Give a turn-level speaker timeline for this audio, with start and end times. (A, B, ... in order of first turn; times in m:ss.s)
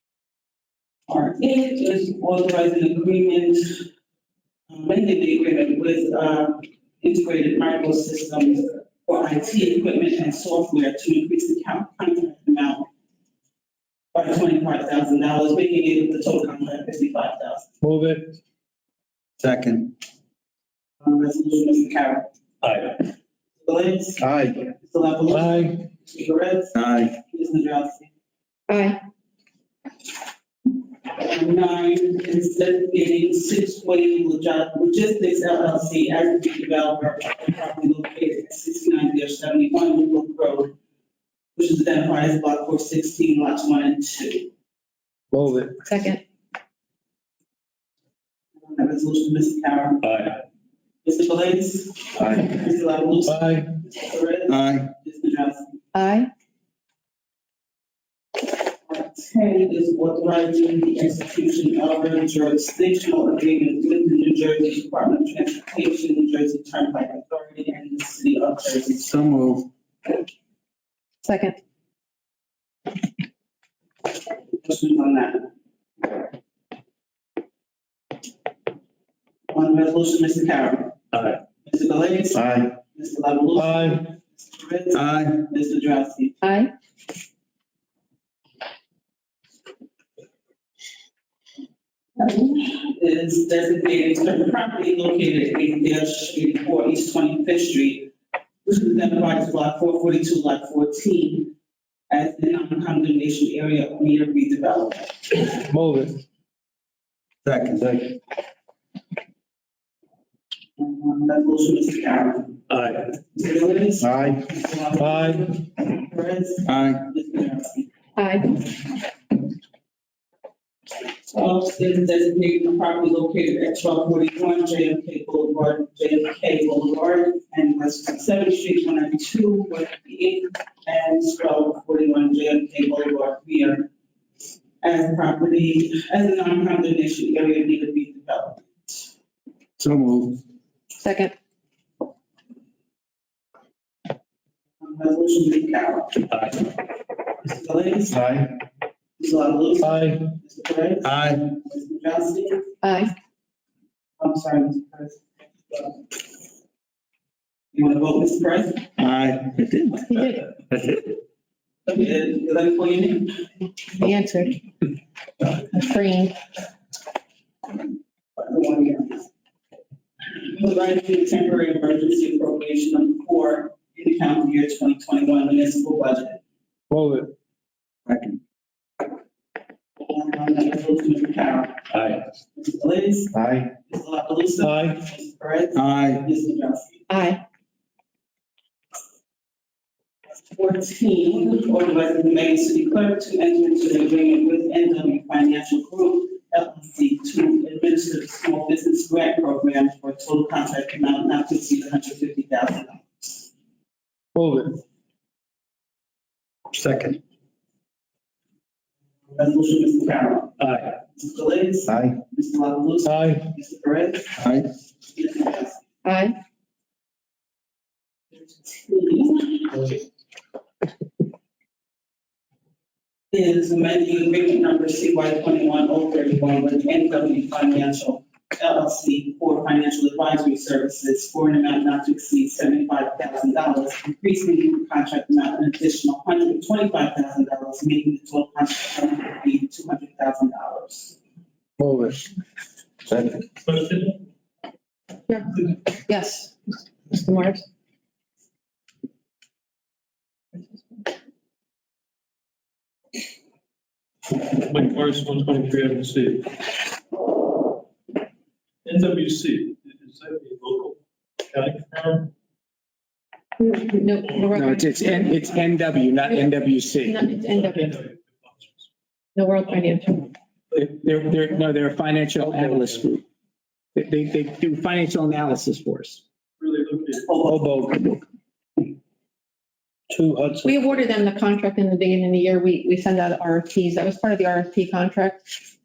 0:01.1-0:03.9 A
0:04.7-0:12.9 A
0:14.1-0:17.7 A
0:17.8-0:18.3 B
0:19.4-0:19.9 C
0:21.0-0:22.3 A
0:22.6-0:23.0 D
0:23.6-0:28.1 A
0:24.2-0:24.6 B
0:25.4-0:25.7 B
0:26.7-0:27.1 C
0:28.7-0:29.0 E
0:31.2-0:40.7 A
0:41.6-0:44.5 A
0:45.3-0:45.7 B
0:45.6-0:46.2 E
0:48.6-0:50.0 A
0:50.0-0:50.4 D
0:51.0-0:55.8 A
0:54.5-0:54.9 C
0:55.9-0:56.3 E
0:58.8-1:09.0 A
1:09.0-1:09.7 C
1:11.2-1:11.6 E
1:14.6-1:15.5 A
1:19.5-1:21.0 A
1:21.1-1:21.4 D
1:21.6-1:26.4 A
1:22.3-1:22.7 B
1:23.6-1:23.9 B
1:24.9-1:25.4 C
1:26.4-1:26.7 E
1:32.2-1:38.1 A
1:38.6-1:41.5 A
1:42.1-1:45.4 A
1:45.7-1:46.1 B
1:47.4-1:47.9 C
1:50.8-1:52.6 A
1:52.7-1:53.0 D
1:53.3-1:57.9 A
1:54.0-1:54.4 B
1:55.0-1:55.4 B
1:56.6-1:57.0 C
1:58.2-1:58.5 E
2:01.3-2:13.9 A
2:14.8-2:19.1 A
2:19.8-2:20.4 C
2:21.0-2:21.3 E
2:24.8-2:26.3 A
2:27.4-2:28.4 A
2:28.1-2:28.5 B
2:29.2-2:32.7 A
2:29.9-2:30.2 B
2:31.0-2:31.4 C
2:32.8-2:33.1 E
2:34.2-2:35.9 A
2:37.7-2:38.9 A
2:39.0-2:41.1 C
2:40.1-2:40.3 E
2:41.8-2:43.5 A
2:44.0-2:44.6 E
2:45.7-2:46.3 E
2:48.4-2:49.3 A
2:50.3-2:56.4 A
2:56.9-2:57.3 B
2:58.0-2:58.4 C
3:00.0-3:03.3 A
3:03.3-3:03.7 B
3:03.9-3:07.0 A
3:04.6-3:04.9 B
3:05.7-3:06.2 C
3:07.1-3:07.4 E
3:10.5-3:23.5 A
3:24.3-3:24.7 B
3:26.7-3:27.2 C
3:29.3-3:30.5 A
3:31.2-3:34.3 A
3:33.0-3:33.4 B
3:34.4-3:34.7 C
3:35.0-3:35.8 A
3:36.0-3:36.4 E
3:38.3-3:40.0 A
3:43.3-4:01.2 A
4:01.8-4:02.2 B
4:03.1-4:03.4 B
4:03.6-4:04.2 D
4:05.3-4:06.6 E
4:07.1-4:07.6 E
4:14.6-4:16.5 D
4:18.8-4:21.0 D
4:21.5-4:22.3 D
4:23.6-4:25.4 E
4:24.2-4:24.6 D
4:24.5-4:27.2 F
4:27.0-4:28.0 E
4:27.4-4:28.8 D
4:29.3-4:30.2 E
4:30.7-4:33.2 F
4:33.9-4:36.2 F
4:36.6-4:37.2 D
4:37.1-4:37.7 A
4:37.5-4:38.0 B
4:40.1-4:40.8 B
4:40.3-4:45.4 E